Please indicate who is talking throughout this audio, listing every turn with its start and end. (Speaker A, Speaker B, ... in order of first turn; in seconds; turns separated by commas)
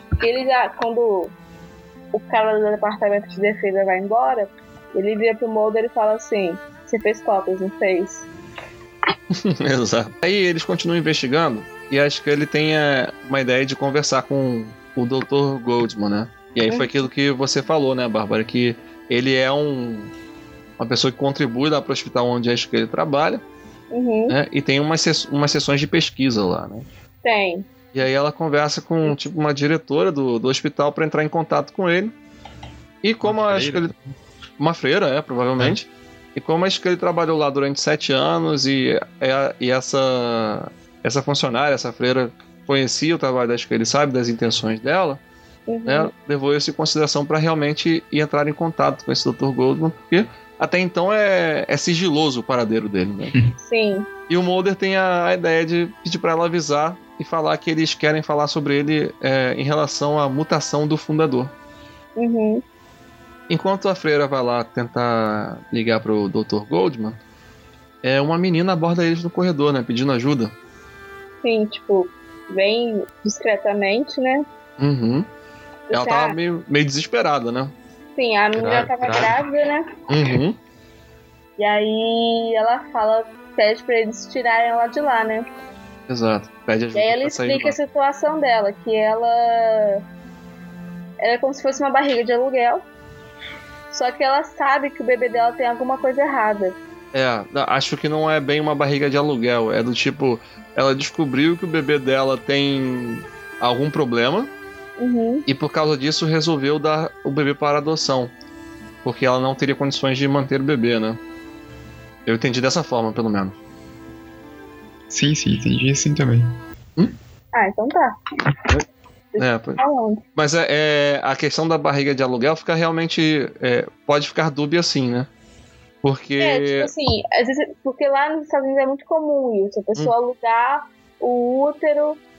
Speaker A: 0.2-1.3, Speaker A: 2.1-8.2, Speaker B: 9.3-20.1, Speaker B: 20.8-23.4, Speaker A: 23.9-24.4, Speaker B: 24.3-26.9, Speaker A: 27.2-27.6, Speaker B: 27.9-32.1, Speaker B: 33.0-33.9, Speaker C: 33.2-34.0, Speaker B: 34.6-45.2, Speaker A: 45.7-46.1, Speaker B: 45.9-53.4, Speaker A: 53.6-54.1, Speaker B: 54.3-61.5, Speaker A: 62.2-62.6, Speaker B: 63.5-67.2, Speaker B: 68.0-70.5, Speaker A: 71.4-74.4, Speaker B: 74.8-75.2, Speaker A: 75.9-76.4, Speaker B: 75.9-77.7, Speaker A: 78.2-79.9, Speaker C: 78.6-79.3, Speaker B: 80.1-80.6, Speaker A: 81.6-85.4, Speaker B: 86.1-87.7, Speaker A: 86.9-90.0, Speaker A: 91.2-92.8, Speaker A: 93.9-96.8, Speaker B: 97.1-104.5, Speaker A: 105.0-105.4, Speaker B: 105.5-108.3, Speaker B: 109.0-111.2, Speaker B: 112.2-113.6, Speaker C: 115.1-116.6, Speaker A: 117.5-118.2, Speaker A: 119.3-120.2, Speaker B: 119.4-119.8, Speaker B: 120.4-125.3, Speaker B: 126.0-126.9, Speaker A: 126.4-132.2